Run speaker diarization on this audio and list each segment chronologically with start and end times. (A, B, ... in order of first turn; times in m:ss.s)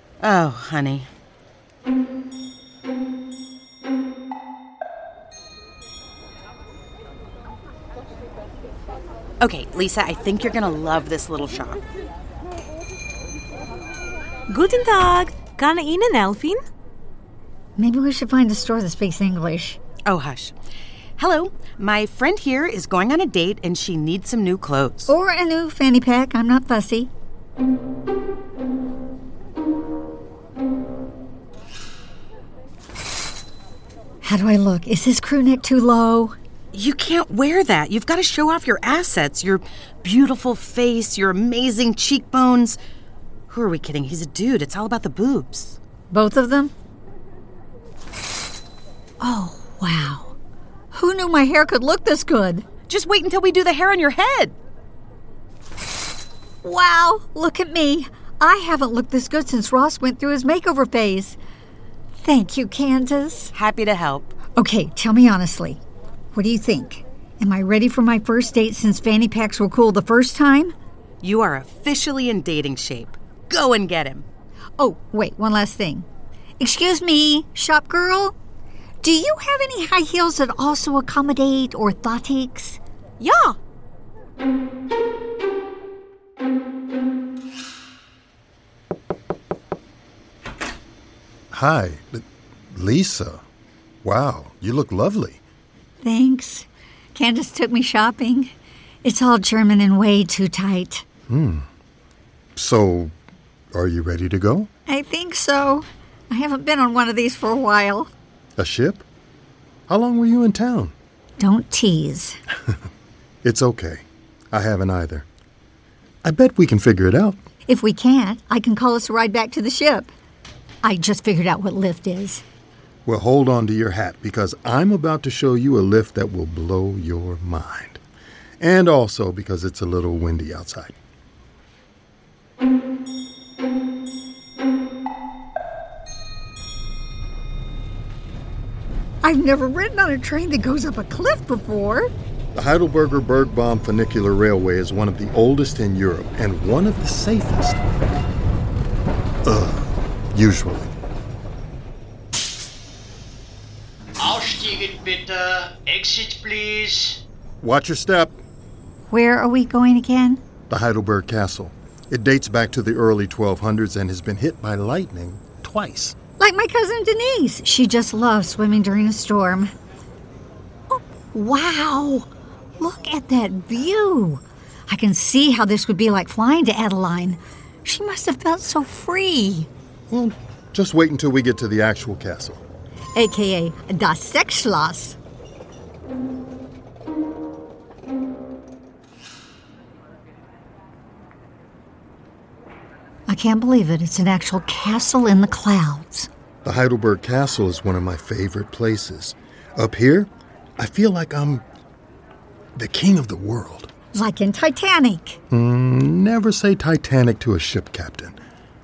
0:00.2-0:01.1 A
0:09.4-0:11.8 A
0:14.5-0:16.6 B
0:17.8-0:19.8 C
0:20.1-0:20.6 A
0:21.2-0:25.1 A
0:25.1-0:27.1 C
0:34.2-0:36.4 C
0:36.7-0:42.8 A
0:43.5-0:45.8 A
0:46.1-0:46.7 C
0:49.2-0:50.4 C
0:50.9-0:52.7 C
0:52.9-0:54.6 A
0:56.6-1:01.4 C
1:02.2-1:03.5 C
1:03.5-1:04.4 A
1:04.6-1:05.8 C
1:06.3-1:10.7 C
1:11.2-1:14.3 A
1:14.8-1:16.1 C
1:16.6-1:18.4 C
1:19.0-1:22.8 C
1:31.5-1:33.4 D
1:34.0-1:35.4 D
1:36.0-1:38.5 C
1:39.0-1:41.0 C
1:41.3-1:41.7 D
1:42.6-1:43.1 D
1:43.7-1:44.7 D
1:44.9-1:48.1 C
1:48.6-1:49.0 D
1:49.9-1:50.9 D
1:51.4-1:52.4 C
1:53.4-1:55.3 D
1:56.2-1:57.4 D
1:57.7-2:00.1 C
2:00.8-2:02.4 C
2:03.1-2:08.0 D
2:08.6-2:11.0 D
2:19.2-2:22.1 C
2:22.6-2:27.8 D
2:29.4-2:30.9 D
2:34.2-2:37.2 E
2:37.6-2:38.4 D
2:39.1-2:40.4 C
2:40.7-2:46.2 D
2:46.4-2:49.7 C
2:50.9-2:52.3 C
2:52.8-2:59.7 C
3:00.1-3:02.6 D
3:03.2-3:05.2 C
3:13.3-3:16.3 C
3:16.6-3:21.6 D
3:22.8-3:23.9 D
3:24.1-3:25.4 C
3:25.5-3:28.4 D